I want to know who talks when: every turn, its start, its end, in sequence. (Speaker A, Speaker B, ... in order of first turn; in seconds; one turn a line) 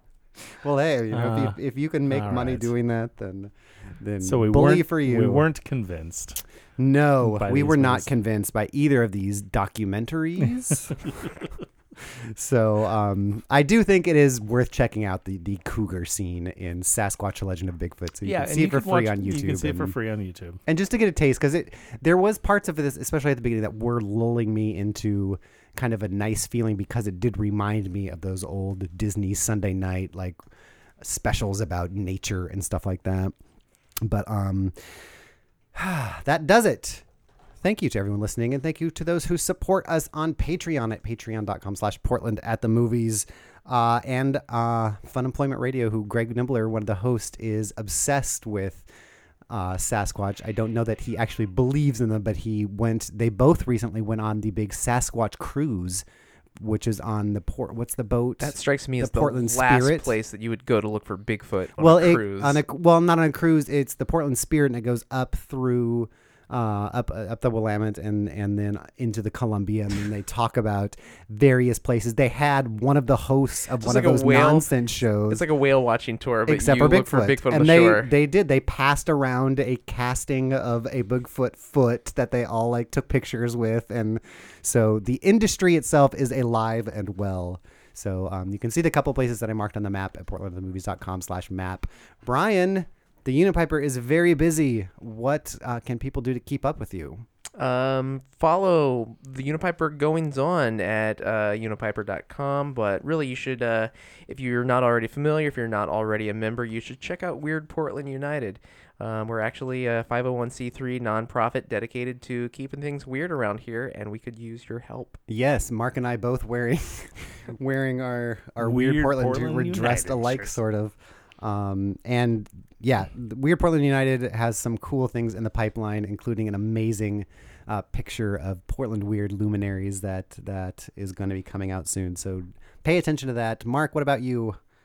Speaker A: 0.5-5.5
Speaker B: 1.1-2.7
Speaker B: 4.2-6.4
Speaker A: 6.8-11.3
Speaker B: 7.2-8.1
Speaker A: 12.0-19.9
Speaker B: 18.2-20.6
Speaker A: 20.6-30.4
Speaker A: 31.0-33.3
Speaker A: 34.0-34.8
Speaker A: 35.7-37.0
Speaker A: 37.6-48.9
Speaker A: 49.5-56.0
Speaker A: 56.6-60.1
Speaker C: 58.4-62.6
Speaker A: 61.8-75.4
Speaker C: 73.8-74.7
Speaker C: 75.3-78.1
Speaker A: 76.5-97.2
Speaker C: 97.6-115.2
Speaker A: 115.3-134.6
Speaker B: 118.6-120.6